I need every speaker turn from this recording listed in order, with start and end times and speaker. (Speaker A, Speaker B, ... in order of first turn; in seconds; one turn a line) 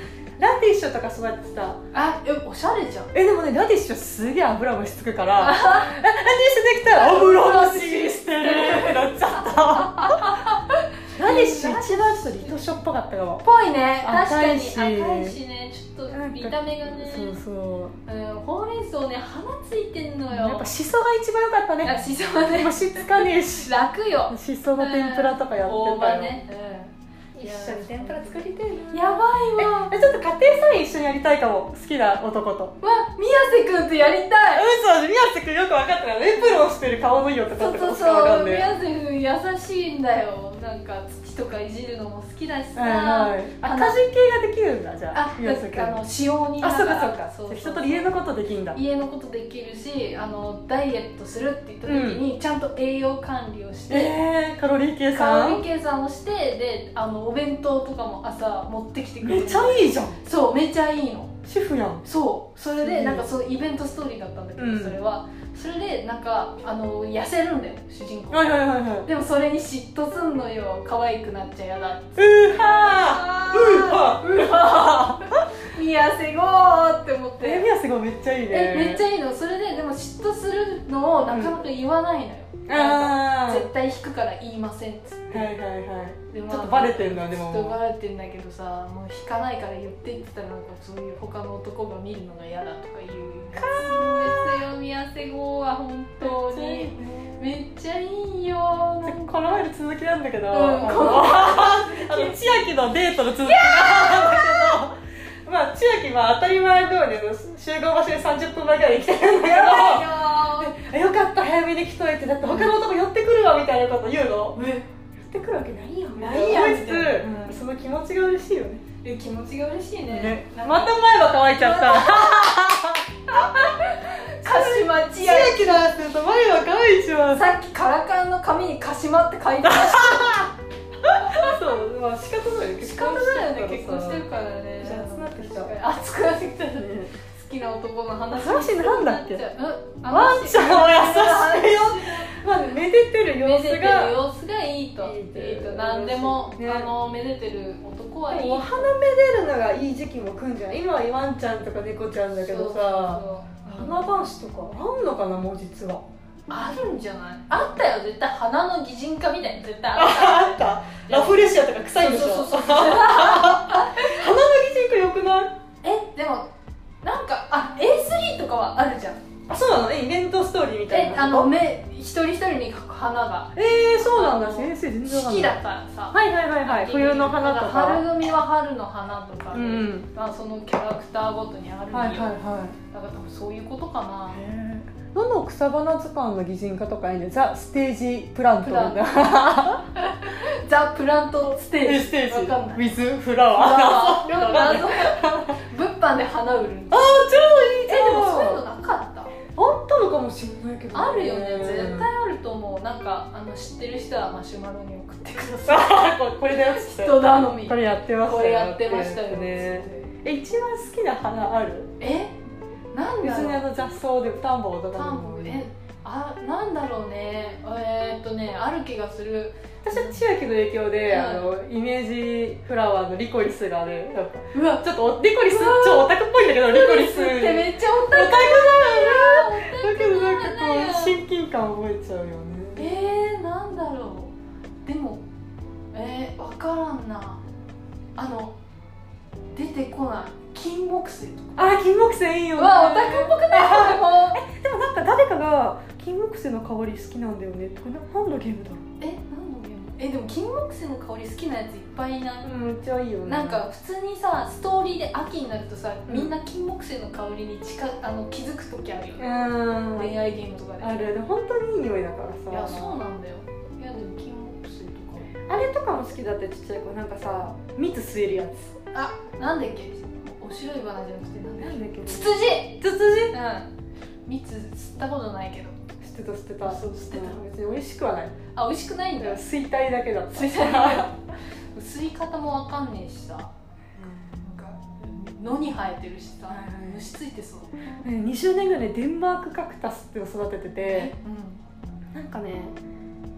Speaker A: 0.4-1.8
Speaker B: 1.9-3.1
Speaker A: 3.1-10.4
Speaker B: 5.4-6.0
Speaker B: 6.9-12.7
Speaker A: 11.2-13.4
Speaker B: 13.4-17.4
Speaker A: 14.0-15.4
Speaker A: 16.1-17.9
Speaker B: 18.1-20.7
Speaker A: 20.3-22.0
Speaker B: 21.8-29.9
Speaker A: 22.5-23.7
Speaker A: 24.3-26.4
Speaker A: 27.4-28.9
Speaker A: 29.6-32.8
Speaker B: 32.8-34.7
Speaker A: 34.5-38.7
Speaker B: 37.6-44.0
Speaker A: 42.8-46.0
Speaker B: 45.1-48.1
Speaker A: 46.6-48.8
Speaker B: 48.7-54.1
Speaker A: 51.9-52.2
Speaker A: 53.9-55.6
Speaker B: 55.1-61.4
Speaker A: 59.2-60.2
Speaker A: 61.5-62.0
Speaker B: 62.0-68.5
Speaker A: 62.7-63.3
Speaker A: 64.6-65.0
Speaker A: 68.3-69.1
Speaker B: 69.0-77.7
Speaker A: 72.2-75.4
Speaker A: 77.4-79.0
Speaker B: 78.5-85.5
Speaker A: 81.3-81.6
Speaker A: 82.7-83.7
Speaker A: 85.3-87.8
Speaker B: 86.3-99.3
Speaker A: 93.5-94.6
Speaker A: 96.2-97.4
Speaker A: 99.0-114.6
Speaker B: 100.5-102.4
Speaker B: 103.4-104.8
Speaker B: 109.4-110.7
Speaker B: 112.5-112.7
Speaker B: 114.5-114.9
Speaker A: 115.2-118.8
Speaker B: 116.2-117.5
Speaker B: 119.0-122.5
Speaker A: 120.1-123.0
Speaker B: 123.3-125.8
Speaker A: 124.4-127.5
Speaker B: 127.3-130.4
Speaker A: 129.6-130.5
Speaker A: 131.1-134.3
Speaker B: 131.1-131.6
Speaker B: 132.8-142.3
Speaker A: 134.8-135.8
Speaker A: 136.8-137.1
Speaker A: 138.3-139.4
Speaker A: 140.1-144.2
Speaker B: 143.4-148.9
Speaker A: 145.0-146.9
Speaker A: 148.3-156.0
Speaker B: 152.5-154.0
Speaker B: 156.5-164.2
Speaker A: 159.9-165.5
Speaker B: 165.8-166.5
Speaker B: 167.0-169.2
Speaker A: 169.5-171.5
Speaker B: 170.9-182.3
Speaker A: 173.6-175.6
Speaker A: 176.1-178.0
Speaker A: 179.5-180.1
Speaker A: 181.9-182.8
Speaker B: 182.9-184.4
Speaker A: 184.3-189.8
Speaker B: 188.6-192.9
Speaker A: 191.7-195.6
Speaker B: 193.5-199.4
Speaker A: 196.9-198.6
Speaker A: 199.6-202.1
Speaker B: 200.9-210.1
Speaker A: 205.7-211.9
Speaker B: 212.0-212.4
Speaker B: 212.9-213.7
Speaker A: 213.2-215.6
Speaker B: 214.9-220.2
Speaker A: 219.8-232.9
Speaker B: 221.1-221.5
Speaker B: 224.5-224.9
Speaker B: 225.4-226.1
Speaker B: 226.7-231.2
Speaker B: 232.8-234.3
Speaker B: 234.9-235.2
Speaker B: 235.9-237.4
Speaker B: 238.2-238.6
Speaker B: 239.6-241.6
Speaker A: 241.6-248.8
Speaker B: 242.6-244.4
Speaker B: 249.0-252.5
Speaker A: 252.4-253.7
Speaker B: 253.3-259.3
Speaker A: 256.1-256.3
Speaker A: 259.2-260.1
Speaker B: 259.9-260.9
Speaker A: 260.8-263.0
Speaker B: 262.5-265.3
Speaker A: 265.5-268.8
Speaker B: 268.9-272.8
Speaker A: 271.6-273.4
Speaker B: 273.3-273.7
Speaker B: 274.3-275.8
Speaker A: 276.0-278.4
Speaker B: 276.6-277.4
Speaker B: 278.5-279.4
Speaker A: 279.2-281.1
Speaker B: 280.3-281.2
Speaker B: 281.8-283.5
Speaker A: 284.0-284.3
Speaker B: 284.4-287.8
Speaker A: 286.5-287.1
Speaker A: 288.0-291.1
Speaker B: 290.8-291.6
Speaker A: 292.1-292.8